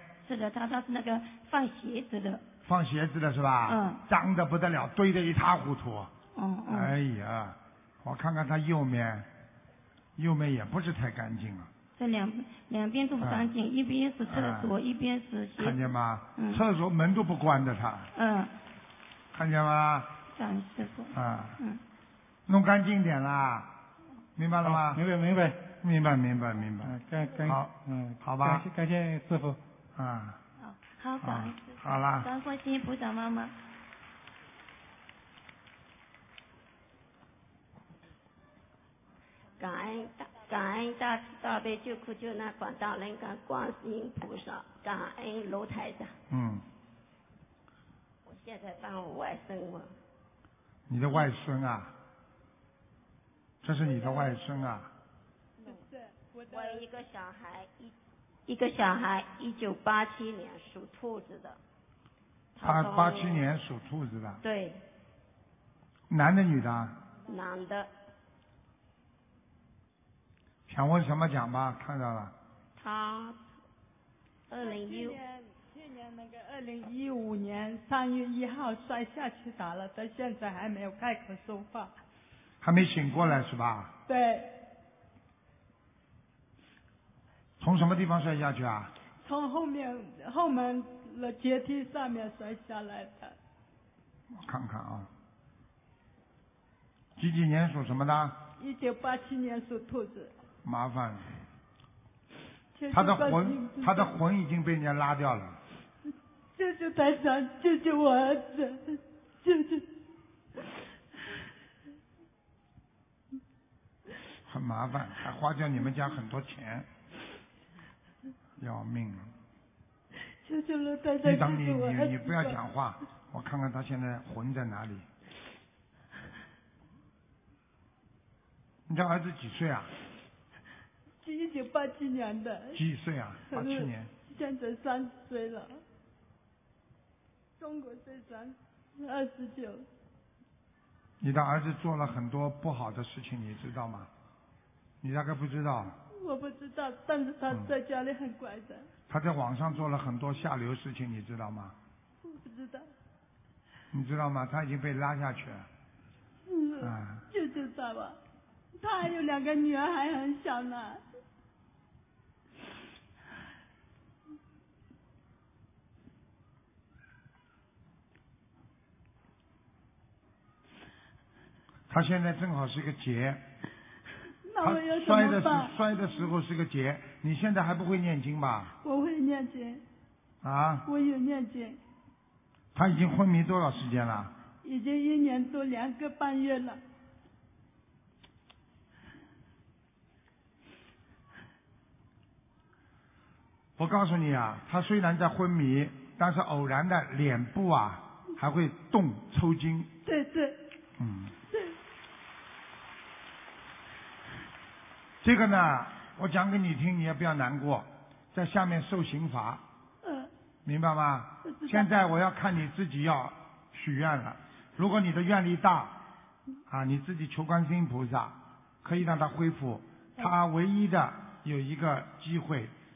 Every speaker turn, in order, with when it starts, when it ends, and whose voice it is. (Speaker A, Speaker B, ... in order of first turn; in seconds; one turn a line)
Speaker A: 0.2-2.4
Speaker B: 2.6-6.1
Speaker A: 3.7-4.0
Speaker A: 6.3-6.9
Speaker B: 6.7-9.3
Speaker B: 10.2-11.7
Speaker A: 12.0-15.8
Speaker B: 13.2-13.5
Speaker B: 14.2-14.7
Speaker B: 15.6-18.1
Speaker A: 16.4-16.6
Speaker A: 18.1-18.5
Speaker B: 19.3-20.1
Speaker A: 20.3-21.8
Speaker B: 21.1-21.6
Speaker B: 22.5-23.7
Speaker B: 24.4-25.0
Speaker C: 24.6-25.7
Speaker B: 25.8-28.6
Speaker C: 26.8-29.6
Speaker B: 29.9-30.4
Speaker A: 30.6-33.5
Speaker B: 31.2-32.3
Speaker D: 39.6-46.1
Speaker B: 46.3-46.6
Speaker D: 48.2-49.9
Speaker B: 50.9-51.9
Speaker B: 53.6-54.9
Speaker E: 55.6-56.8
Speaker D: 56.5-57.9
Speaker D: 58.5-61.6
Speaker D: 62.5-63.4
Speaker B: 62.6-64.4
Speaker D: 64.4-64.8
Speaker B: 66.1-67.0
Speaker D: 67.2-67.9
Speaker B: 70.7-72.3
Speaker D: 72.8-73.4
Speaker D: 74.5-75.2
Speaker E: 74.6-81.9
Speaker B: 82.6-83.9
Speaker E: 84.1-84.5
Speaker B: 87.6-88.9
Speaker E: 89.2-93.3
Speaker B: 94.4-95.1
Speaker B: 97.2-98.4
Speaker E: 98.6-100.3
Speaker B: 100.6-101.3
Speaker E: 102.7-104.1
Speaker B: 102.9-105.6
Speaker E: 106.5-109.9
Speaker B: 114.5-116.9
Speaker B: 118.6-119.3
Speaker E: 120.4-122.6
Speaker B: 121.2-125.0
Speaker B: 128.9-129.9
Speaker E: 131.2-132.8
Speaker B: 132.7-134.1
Speaker E: 133.5-135.8
Speaker E: 137.6-139.8
Speaker B: 141.2-144.1
Speaker B: 145.0-145.9
Speaker E: 146.1-148.9
Speaker B: 149.1-151.8
Speaker E: 152.2-152.9
Speaker B: 153.9-155.7
Speaker E: 156.5-158.2
Speaker B: 156.8-157.2
Speaker E: 158.8-161.0
Speaker B: 171.9-173.4
Speaker E: 174.4-175.8
Speaker B: 174.6-178.7
Speaker E: 178.8-179.8
Speaker B: 180.4-180.9
Speaker E: 180.8-181.8
Speaker B: 182.7-184.3
Speaker E: 184.6-186.8
Speaker B: 193.8-199.9
Speaker E: 200.1-200.6
Speaker B: 201.0-201.3
Speaker E: 201.5-201.8
Speaker B: 205.2-209.6
Speaker E: 210.0-210.3
Speaker B: 210.6-216.0
Speaker E: 211.4-211.9
Speaker B: 216.7-222.7